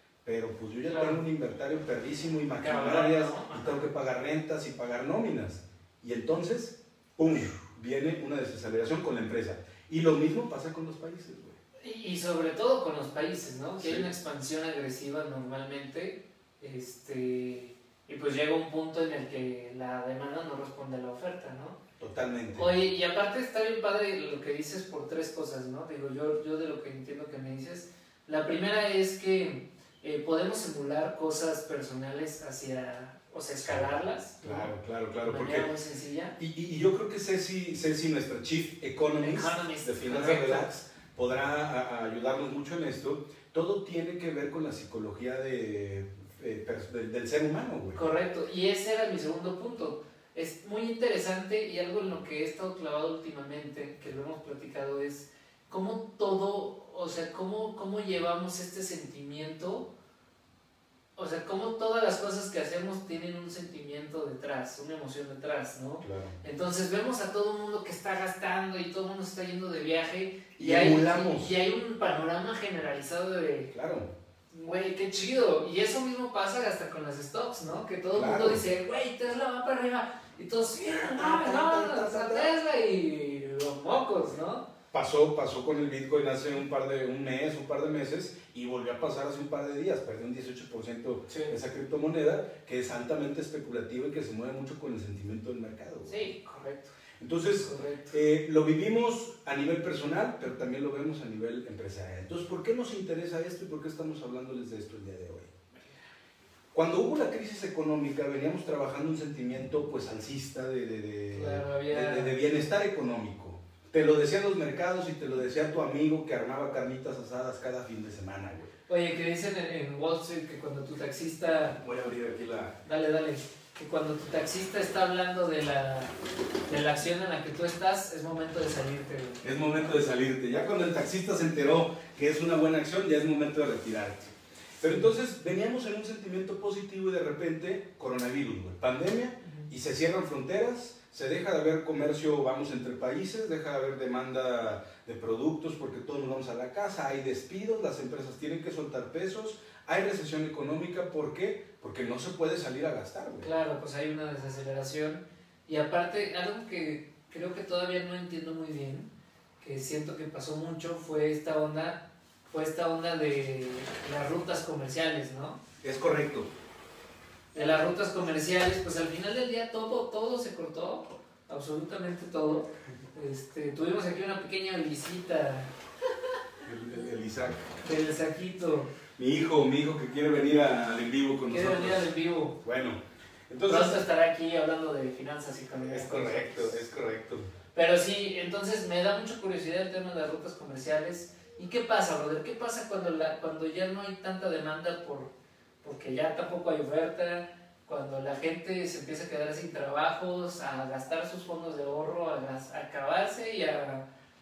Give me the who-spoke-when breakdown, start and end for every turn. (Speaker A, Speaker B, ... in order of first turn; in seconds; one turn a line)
Speaker A: 0.2-11.6
Speaker B: 0.9-1.2
Speaker B: 2.6-3.9
Speaker B: 11.8-21.8
Speaker A: 13.8-14.1
Speaker A: 22.0-22.8
Speaker B: 22.5-34.7
Speaker A: 33.6-35.7
Speaker B: 35.2-36.4
Speaker A: 36.4-48.1
Speaker B: 39.2-40.7
Speaker B: 47.9-59.9
Speaker B: 61.2-73.7
Speaker A: 66.0-66.4
Speaker A: 70.6-71.5
Speaker A: 73.7-74.1
Speaker B: 74.5-84.7
Speaker A: 78.1-78.6
Speaker A: 80.8-82.5
Speaker A: 84.9-96.3
Speaker B: 91.3-91.5
Speaker B: 96.1-96.9
Speaker A: 97.2-105.5
Speaker B: 97.5-98.1
Speaker A: 106.7-118.7
Speaker B: 111.3-112.4
Speaker B: 118.9-121.8
Speaker A: 121.8-122.8
Speaker B: 122.8-126.1
Speaker B: 126.7-130.0
Speaker A: 129.4-153.5
Speaker B: 134.8-135.1
Speaker B: 153.4-159.1
Speaker B: 159.6-165.6
Speaker A: 165.8-166.5
Speaker B: 167.5-175.7
Speaker A: 176.7-177.7
Speaker B: 177.8-178.9
Speaker A: 179.2-182.1
Speaker B: 181.5-182.6
Speaker A: 182.6-184.0
Speaker B: 183.6-186.8
Speaker A: 185.8-187.5
Speaker B: 187.8-195.3
Speaker B: 195.8-204.1